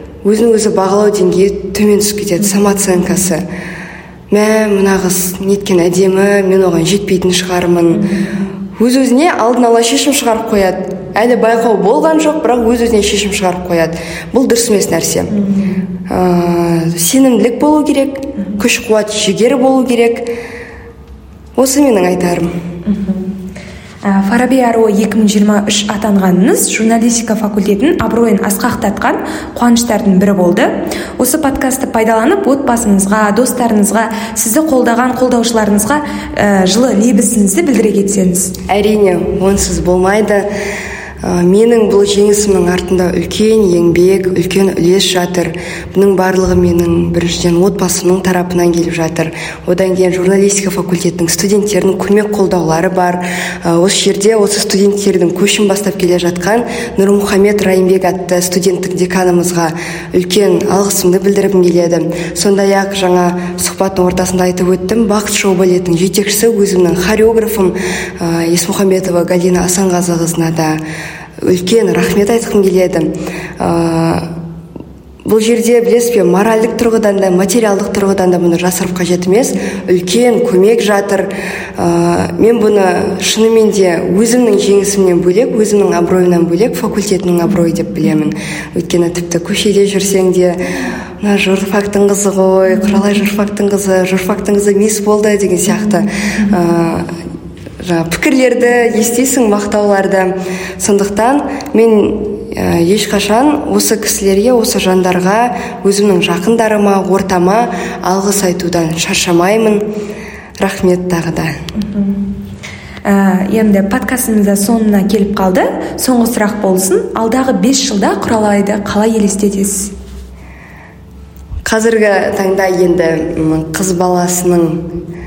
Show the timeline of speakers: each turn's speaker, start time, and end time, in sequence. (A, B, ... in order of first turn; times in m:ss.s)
0:00.2-0:03.4 A
0:04.3-0:08.1 A
0:07.9-0:08.5 B
0:08.7-0:15.3 A
0:15.3-0:15.8 B
0:16.1-0:20.3 A
0:21.6-0:22.5 A
0:22.8-0:23.3 B
0:24.0-0:38.5 B
0:38.7-0:40.5 A
0:41.2-1:10.8 A
1:11.4-1:14.3 A
1:15.2-1:30.6 A
1:31.2-1:37.1 A
1:37.8-1:49.8 A
1:50.6-1:51.5 A
1:51.8-1:52.2 B
1:53.0-1:59.9 B
2:01.6-2:04.9 A